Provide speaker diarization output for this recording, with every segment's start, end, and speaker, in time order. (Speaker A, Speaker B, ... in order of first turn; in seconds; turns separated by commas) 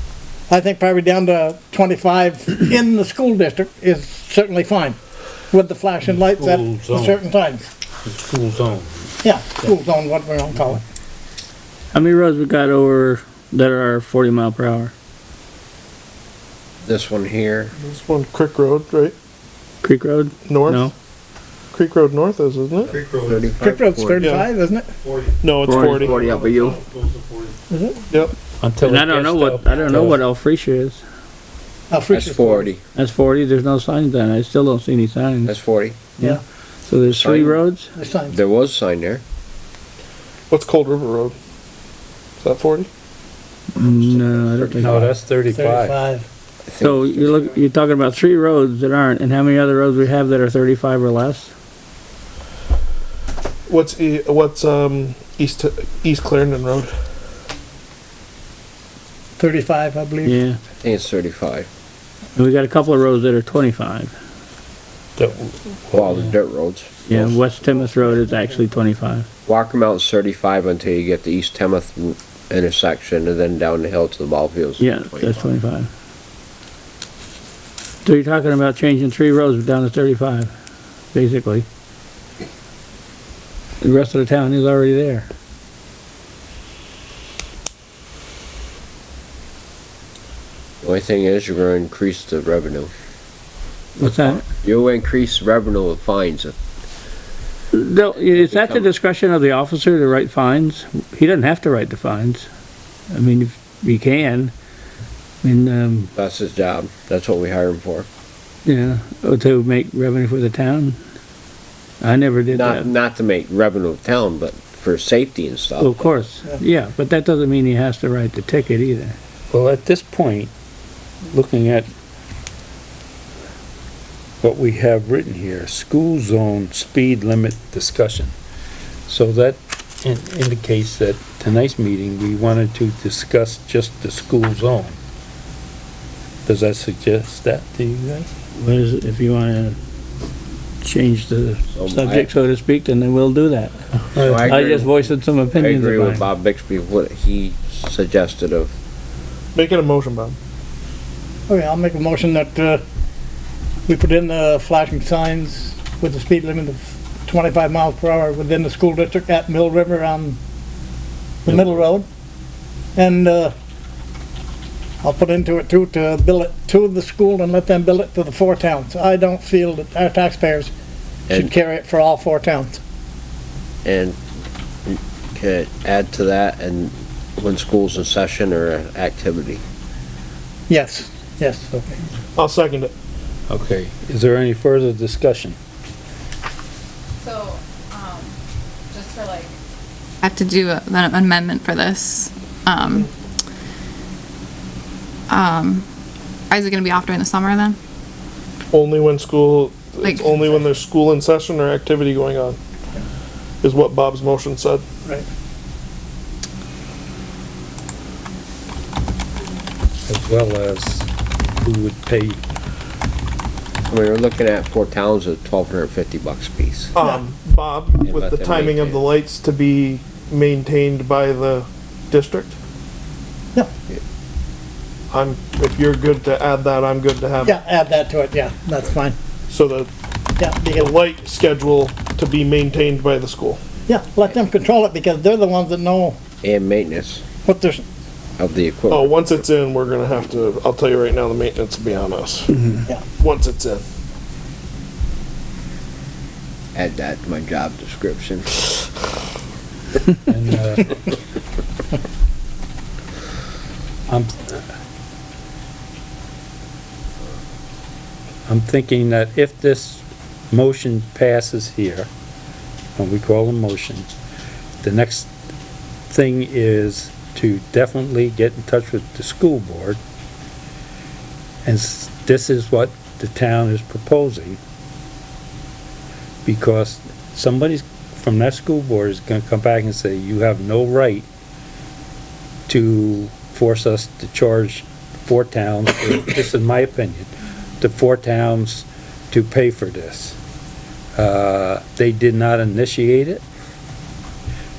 Speaker A: 0.5-5.0, Speaker A: 5.5-7.7, Speaker B: 6.1-7.2, Speaker B: 8.0-9.7, Speaker A: 9.2-10.8, Speaker C: 11.9-14.9, Speaker D: 16.8-17.7, Speaker E: 17.8-19.1, Speaker C: 19.8-20.9, Speaker E: 20.4-20.9, Speaker E: 21.7-22.9, Speaker B: 22.9-23.6, Speaker D: 23.2-24.3, Speaker A: 23.6-24.9, Speaker E: 24.2-24.5, Speaker B: 25.0-27.6, Speaker E: 25.4-26.2, Speaker D: 25.6-26.8, Speaker A: 27.7-28.1, Speaker E: 28.1-28.4, Speaker B: 28.6-30.2, Speaker C: 28.8-31.0, Speaker A: 31.9-32.7, Speaker D: 32.1-32.8, Speaker C: 32.9-35.5, Speaker D: 35.4-36.0, Speaker C: 36.2-37.9, Speaker D: 37.1-37.6, Speaker A: 38.0-38.4, Speaker D: 38.3-39.2, Speaker E: 40.5-41.3, Speaker E: 42.4-42.9, Speaker C: 43.7-45.1, Speaker D: 44.0-45.1, Speaker B: 44.8-45.9, Speaker A: 45.5-46.3, Speaker D: 46.6-47.5, Speaker C: 46.8-51.5, Speaker E: 53.7-56.9, Speaker A: 59.4-60.4, Speaker C: 60.2-60.6, Speaker D: 60.8-61.7, Speaker C: 62.4-64.1, Speaker B: 65.2-66.3, Speaker D: 65.9-67.3, Speaker C: 67.1-69.3, Speaker D: 69.5-75.5, Speaker C: 74.8-75.9, Speaker C: 78.0-80.5, Speaker C: 81.1-81.7, Speaker C: 83.8-85.3, Speaker D: 90.8-92.9, Speaker C: 94.0-94.5, Speaker D: 94.0-96.5, Speaker C: 97.7-102.5, Speaker D: 98.3-98.9, Speaker C: 103.1-104.5, Speaker C: 105.4-106.1, Speaker D: 106.1-108.1, Speaker C: 108.7-111.0, Speaker C: 112.0-112.9, Speaker D: 112.5-116.0, Speaker C: 115.8-119.2, Speaker B: 119.5-120.5, Speaker B: 121.2-121.9, Speaker B: 124.4-128.3, Speaker B: 129.1-135.0, Speaker B: 136.4-138.3, Speaker C: 138.6-139.8, Speaker C: 140.8-143.7, Speaker D: 141.7-142.3, Speaker B: 144.1-144.5, Speaker D: 144.2-144.9, Speaker C: 144.3-146.2, Speaker D: 145.5-148.7, Speaker E: 149.5-150.3, Speaker A: 151.5-152.8, Speaker A: 153.9-160.4, Speaker A: 161.4-162.1, Speaker A: 162.9-163.5, Speaker A: 165.0-170.7, Speaker A: 171.3-172.8, Speaker D: 173.8-174.2, Speaker D: 174.8-179.6, Speaker A: 180.7-182.0, Speaker E: 182.4-182.9, Speaker B: 183.5-185.6, Speaker F: 187.2-188.3, Speaker F: 188.9-189.6, Speaker F: 190.2-193.1, Speaker F: 195.3-195.9, Speaker F: 196.5-197.8, Speaker E: 198.7-202.6, Speaker F: 200.0-200.4, Speaker E: 203.6-204.8, Speaker B: 210.1-212.4, Speaker D: 213.8-216.9, Speaker E: 216.9-222.5, Speaker D: 218.0-219.0, Speaker E: 225.1-227.6, Speaker A: 227.4-229.2, Speaker E: 229.5-229.9, Speaker A: 230.4-230.9, Speaker E: 230.7-233.6, Speaker A: 233.9-236.2, Speaker D: 236.4-237.2, Speaker A: 237.4-237.8, Speaker D: 238.4-239.4, Speaker E: 238.9-242.7, Speaker E: 243.2-243.8, Speaker D: 246.7-248.7, Speaker B: 250.2-251.1, Speaker B: 254.1-254.6, Speaker B: 258.5-262.1, Speaker B: 263.0-264.1, Speaker B: 264.8-265.3, Speaker B: 266.1-270.0, Speaker B: 271.6-274.6, Speaker B: 276.4-281.3, Speaker B: 282.7-287.3, Speaker B: 287.8-290.4, Speaker B: 291.1-293.4